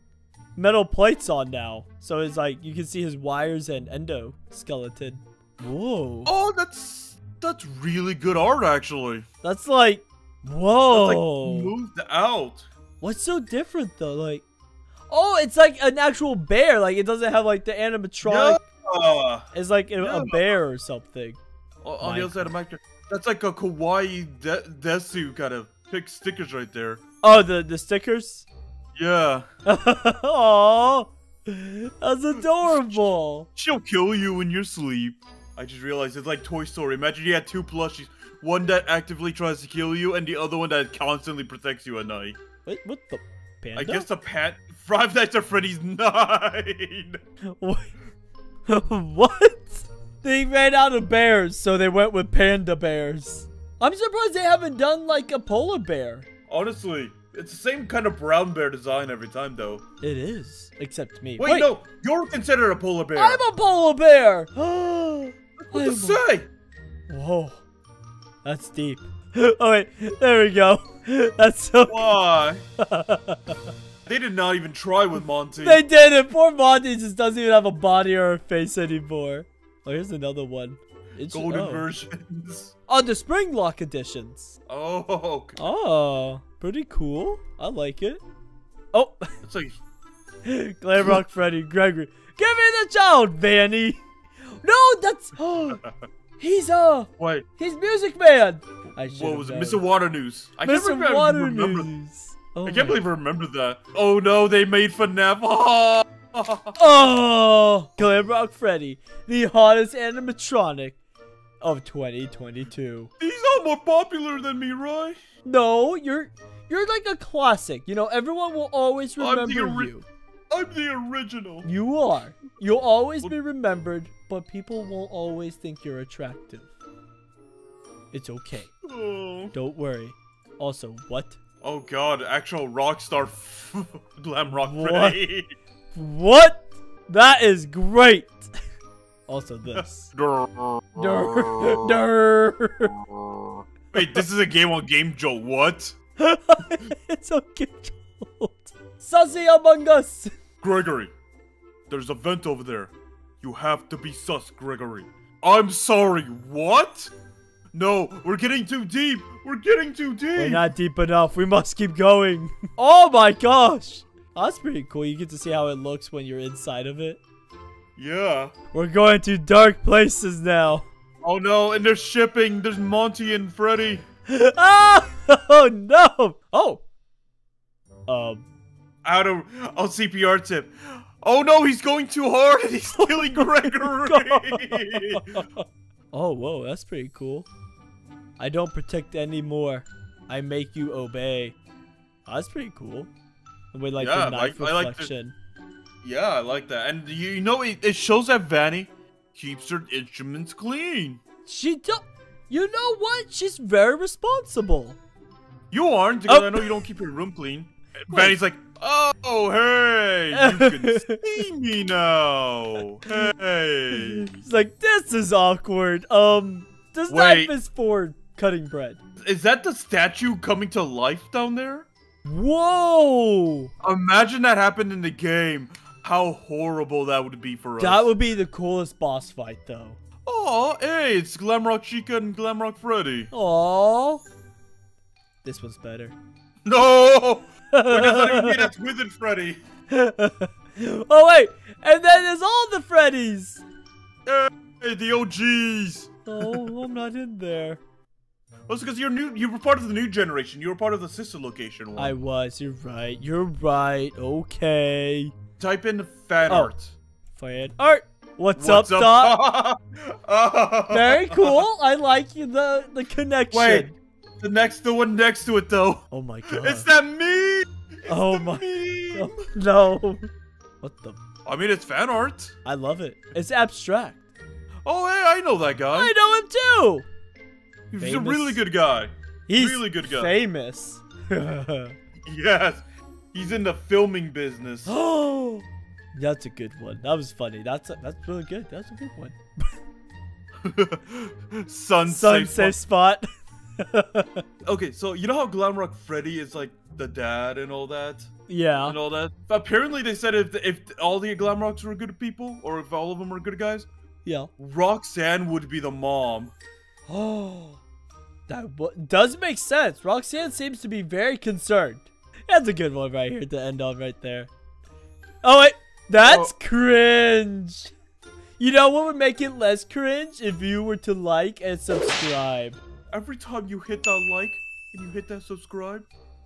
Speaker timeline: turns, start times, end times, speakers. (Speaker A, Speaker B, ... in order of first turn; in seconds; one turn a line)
Speaker A: 0.6-6.3
Speaker B: 6.2-9.2
Speaker A: 9.4-11.7
Speaker B: 10.9-12.7
Speaker A: 13.0-14.4
Speaker A: 15.1-18.7
Speaker B: 18.2-20.4
Speaker A: 19.5-21.4
Speaker B: 21.8-27.0
Speaker A: 22.0-22.5
Speaker A: 27.2-28.5
Speaker B: 28.9-29.4
Speaker A: 29.6-33.5
Speaker B: 32.5-33.0
Speaker B: 33.5-42.4
Speaker A: 42.6-44.1
Speaker B: 43.7-47.2
Speaker A: 47.6-47.9
Speaker A: 48.7-56.2
Speaker B: 56.5-59.8
Speaker A: 60.0-61.7
Speaker B: 61.4-63.4
Speaker A: 63.1-66.2
Speaker B: 65.7-66.5
Speaker A: 67.1-67.6
Speaker A: 68.4-72.2
Speaker B: 71.9-72.6
Speaker A: 72.8-73.6
Speaker B: 74.0-75.8
Speaker A: 75.6-81.8
Speaker B: 81.3-82.7
Speaker A: 82.9-84.5
Speaker B: 84.7-85.6
Speaker A: 85.6-88.2
Speaker A: 88.9-89.3
Speaker B: 89.4-89.8
Speaker A: 90.4-94.0
Speaker A: 94.6-95.8
Speaker A: 96.4-99.8
Speaker B: 97.2-97.5
Speaker B: 99.0-101.9
Speaker A: 100.6-103.0
Speaker B: 102.6-106.8
Speaker A: 106.8-111.0
Speaker A: 111.6-113.1
Speaker B: 113.2-115.2
Speaker A: 115.4-120.0
Speaker B: 119.2-119.9
Speaker B: 120.5-121.7
Speaker A: 121.6-126.7
Speaker A: 128.1-128.7
Speaker B: 128.8-129.5
Speaker A: 129.5-131.4
Speaker B: 131.6-135.5
Speaker A: 134.5-135.2
Speaker A: 135.9-138.5
Speaker A: 139.3-140.1
Speaker B: 139.7-142.0
Speaker A: 140.9-142.9
Speaker B: 143.9-145.9
Speaker A: 146.2-150.3
Speaker B: 150.6-151.1
Speaker B: 151.9-157.1
Speaker B: 157.7-160.7
Speaker A: 160.3-167.2
Speaker B: 168.0-168.5
Speaker A: 168.7-170.9
Speaker B: 171.2-174.0
Speaker A: 174.3-176.8
Speaker A: 178.1-178.4
Speaker B: 179.0-185.4
Speaker A: 182.9-187.5
Speaker A: 188.4-191.6
Speaker A: 192.2-193.1
Speaker A: 193.7-195.3
Speaker B: 194.0-195.1
Speaker B: 196.0-201.2
Speaker A: 201.4-205.0
Speaker B: 205.7-214.3
Speaker A: 206.3-206.8
Speaker A: 208.1-208.3
Speaker A: 210.3-211.2
Speaker A: 213.9-219.0
Speaker B: 217.1-217.5
Speaker B: 219.2-221.9
Speaker A: 222.2-223.7
Speaker B: 223.8-228.1
Speaker A: 227.8-230.0
Speaker B: 230.2-233.3
Speaker A: 233.3-234.2
Speaker A: 235.4-236.2
Speaker B: 236.7-239.6
Speaker A: 237.7-238.7
Speaker A: 239.9-243.6
Speaker B: 244.2-246.8
Speaker A: 246.2-247.8
Speaker B: 248.7-252.2
Speaker A: 252.0-255.3
Speaker B: 255.6-256.9
Speaker A: 256.5-256.7
Speaker A: 257.4-259.4
Speaker B: 258.6-261.6
Speaker A: 260.9-263.9
Speaker B: 263.5-269.5
Speaker A: 266.1-266.9
Speaker A: 268.1-270.3
Speaker A: 270.8-271.2
Speaker B: 271.4-272.6
Speaker A: 272.6-274.2
Speaker B: 274.8-276.1
Speaker A: 275.9-277.1
Speaker B: 277.9-280.3
Speaker A: 278.0-278.6
Speaker A: 279.5-281.9
Speaker B: 282.2-284.9
Speaker A: 284.9-289.7
Speaker B: 290.6-292.8
Speaker A: 292.1-293.2
Speaker A: 293.8-294.4
Speaker B: 294.6-298.3
Speaker A: 298.5-299.0
Speaker B: 298.8-303.9
Speaker A: 304.2-304.5
Speaker B: 304.6-306.5
Speaker A: 307.1-307.8
Speaker A: 308.5-314.5
Speaker A: 315.4-317.9
Speaker B: 316.2-316.5
Speaker A: 318.6-322.8
Speaker B: 323.1-326.1